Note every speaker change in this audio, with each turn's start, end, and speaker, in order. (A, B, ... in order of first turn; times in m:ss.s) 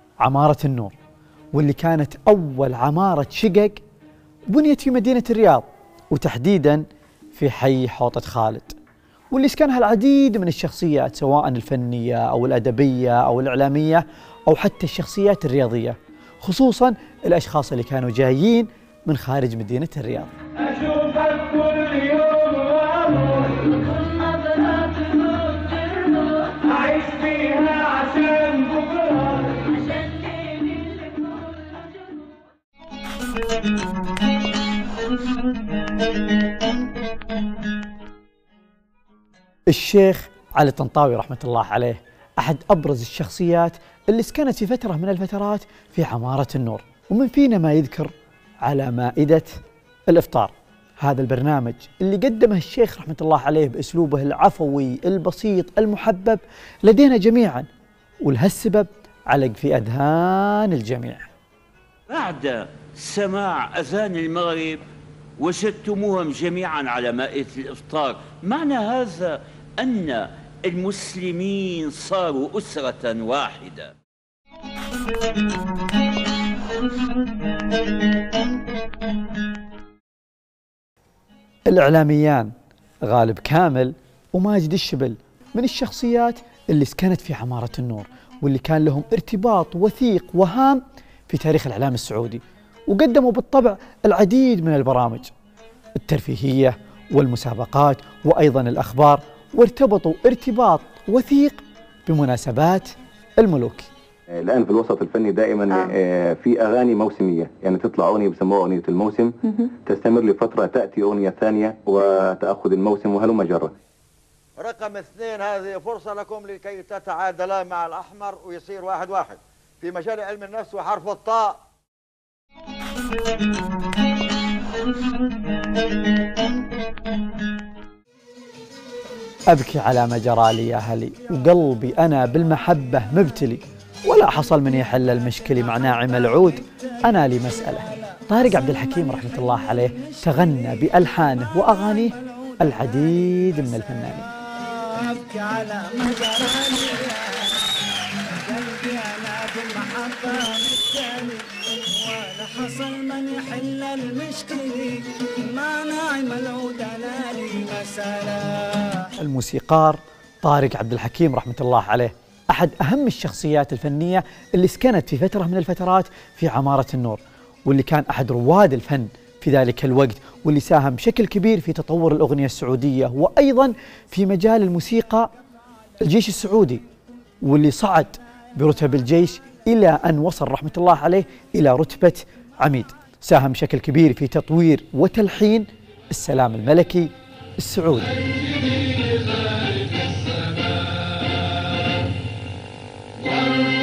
0:00.2-0:01.0 A
0:01.5-0:03.8 A
0:04.5-0:08.8 A
0:09.3-0:20.3 A
0:20.6-0:23.4 B
0:24.1-0:26.2 C
0:26.7-0:29.3 B
0:30.1-0:31.2 C
0:39.7-0:49.5 A
0:50.1-0:57.7 A
0:58.2-1:01.3 A
1:02.1-1:04.8 C
1:05.4-1:13.9 C
1:21.7-1:22.5 A
1:23.0-1:35.3 A
1:36.0-1:43.9 A
1:44.3-1:53.7 D
1:54.6-2:01.6 E
2:09.5-2:24.3 A
2:24.8-2:27.6 B
2:28.4-2:39.1 B
2:39.1-2:55.3 A
2:56.0-2:56.8 A
2:57.4-3:08.3 A